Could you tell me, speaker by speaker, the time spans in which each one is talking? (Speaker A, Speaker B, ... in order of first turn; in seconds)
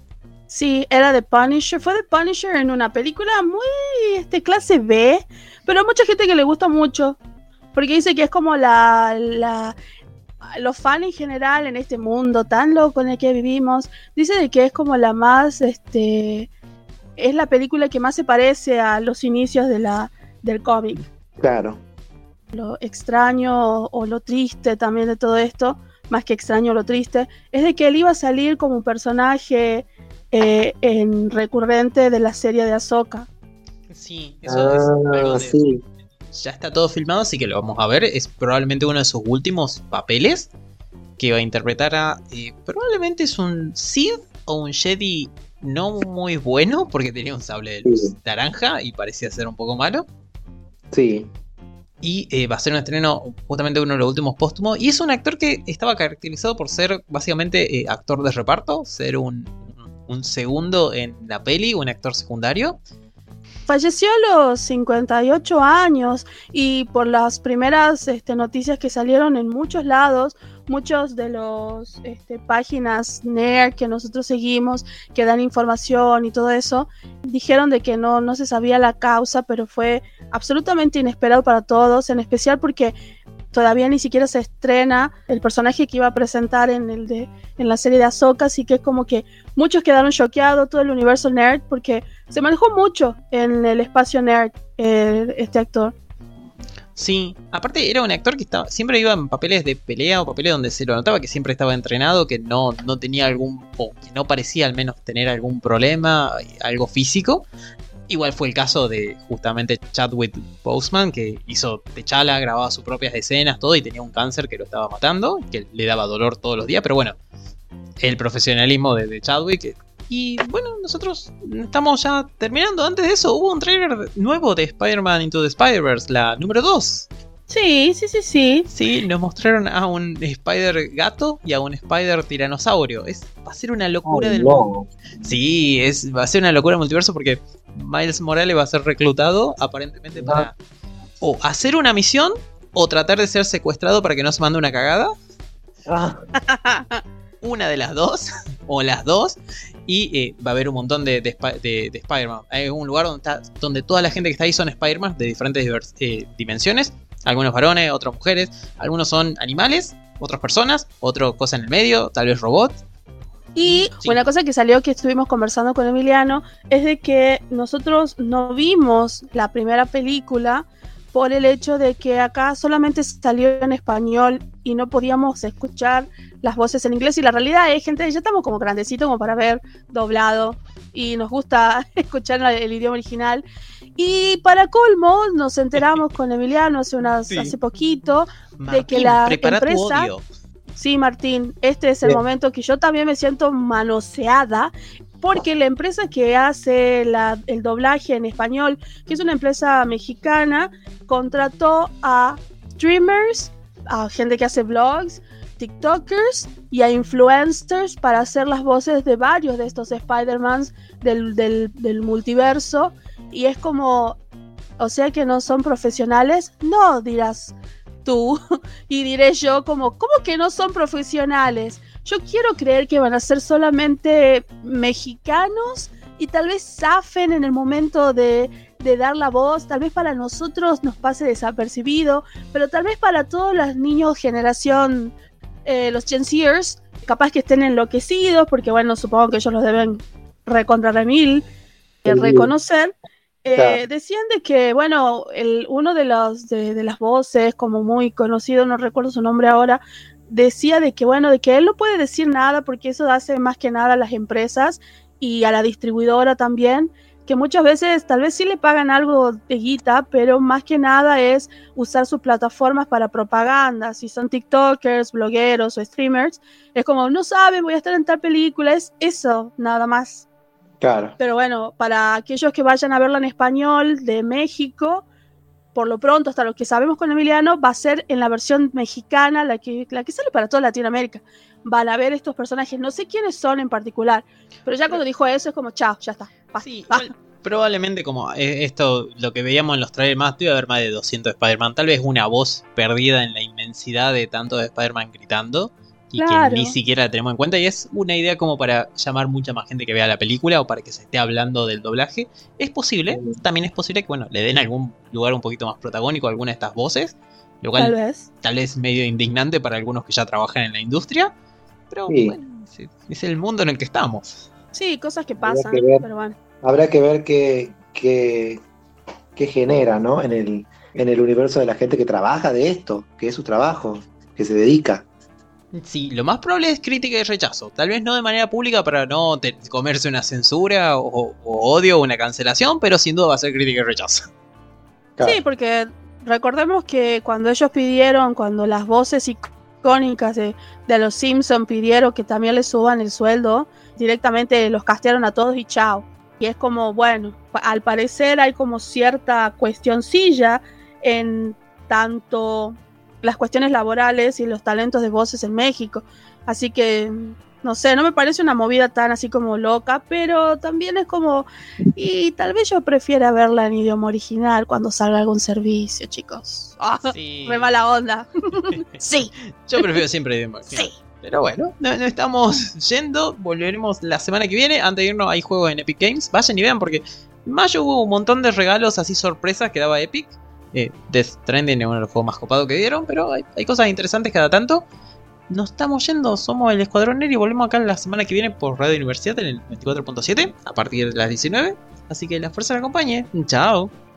Speaker A: 0.5-7.2, 7.7-9.8, 10.6-16.5, 17.2-21.0, 22.5-33.3, 63.7-82.9, 83.5-95.9, 127.5-128.7, 146.4-147.0, 163.6-183.4, 184.0-190.1, 190.8-214.2, 214.8-235.1, 235.6-241.4, 242.0-242.9, 243.4-270.2, 271.2-275.0, 275.7-287.1, 296.2-296.7, 307.8-308.3, 314.7-316.3, 335.2-369.9
Speaker B: 21.4-21.8, 34.5-35.8, 47.8-48.1, 50.9-51.3, 134.0-134.9, 140.2-140.5, 145.9-146.2, 242.1-242.5, 243.5-243.8, 270.8-271.1, 303.1-303.4, 312.1-312.4, 315.4-316.0, 316.6-318.6, 319.4-325.1
Speaker C: 33.9-35.6, 36.3-40.5, 41.2-50.0, 52.0-62.8, 97.0-107.5, 108.1-117.2, 118.0-127.1, 128.7-134.7, 135.2-140.5, 141.2-145.1, 147.4-149.3, 149.9-162.8, 163.6-164.2, 185.8-186.0, 188.6-190.2, 286.6-311.3, 311.9-314.5, 325.7-334.2, 367.1-367.7, 369.6-384.8, 385.5-393.9